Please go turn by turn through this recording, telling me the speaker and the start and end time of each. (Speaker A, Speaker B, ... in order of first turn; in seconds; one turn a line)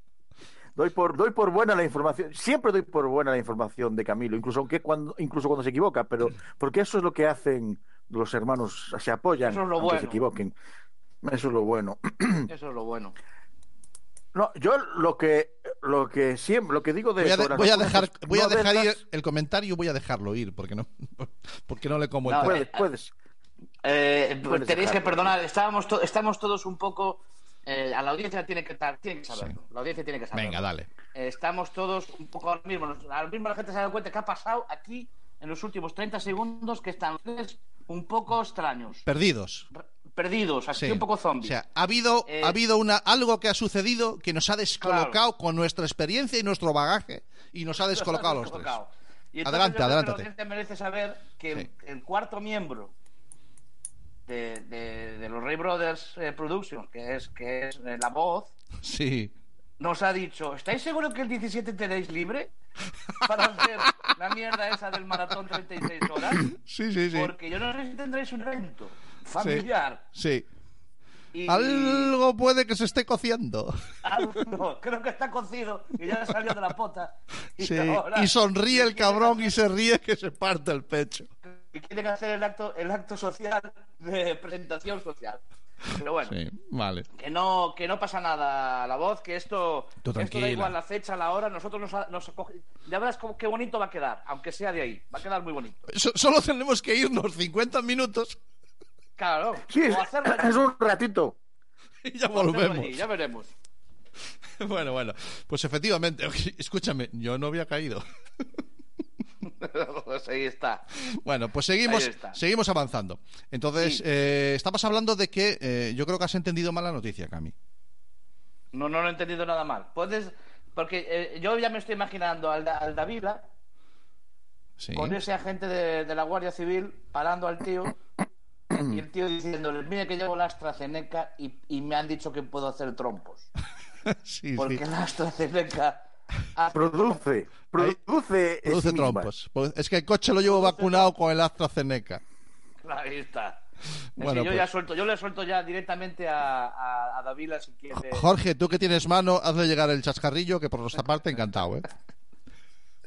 Speaker A: 0.8-10.5
Speaker B: 9.4-10.2
Speaker A: 11.2-12.5
Speaker B: 12.5-13.2
Speaker A: 14.3-19.0
Speaker C: 17.2-22.6
Speaker B: 22.2-22.8
Speaker A: 22.4-23.1
Speaker B: 23.8-39.0
Speaker A: 24.5-25.3
Speaker C: 30.3-30.9
Speaker C: 39.0-39.7
Speaker B: 39.8-41.6
Speaker C: 40.8-48.8
Speaker B: 42.3-42.6
Speaker B: 44.8-45.2
Speaker B: 47.9-52.9
Speaker C: 49.4-50.3
Speaker B: 54.3-58.5
Speaker C: 58.8-59.3
Speaker B: 59.8-62.5
Speaker C: 63.1-64.1
Speaker B: 63.2-66.5
Speaker C: 66.2-67.3
Speaker B: 67.1-70.0
Speaker C: 69.4-70.5
Speaker B: 71.3-72.1
Speaker C: 71.5-74.3
Speaker B: 74.0-79.5
Speaker C: 77.6-81.3
Speaker B: 81.5-86.4
Speaker C: 86.3-87.1
Speaker B: 87.2-95.9
Speaker C: 90.0-90.8
Speaker C: 95.9-98.4
Speaker B: 99.2-100.7
Speaker A: 99.7-101.4
Speaker C: 102.0-103.0
Speaker B: 102.3-103.5
Speaker C: 104.6-108.0
Speaker B: 109.4-110.9
Speaker C: 111.0-117.5
Speaker B: 111.8-112.4
Speaker B: 118.7-123.4
Speaker C: 124.8-125.2
Speaker B: 124.9-128.0
Speaker B: 128.8-133.5
Speaker C: 134.1-134.8
Speaker B: 134.6-136.0
Speaker B: 136.6-137.2
Speaker A: 136.7-139.3
Speaker C: 138.6-142.2
Speaker B: 140.4-141.1
Speaker B: 142.8-143.6
Speaker C: 144.2-144.7
Speaker B: 144.2-148.3
Speaker C: 148.0-151.9
Speaker B: 151.0-151.4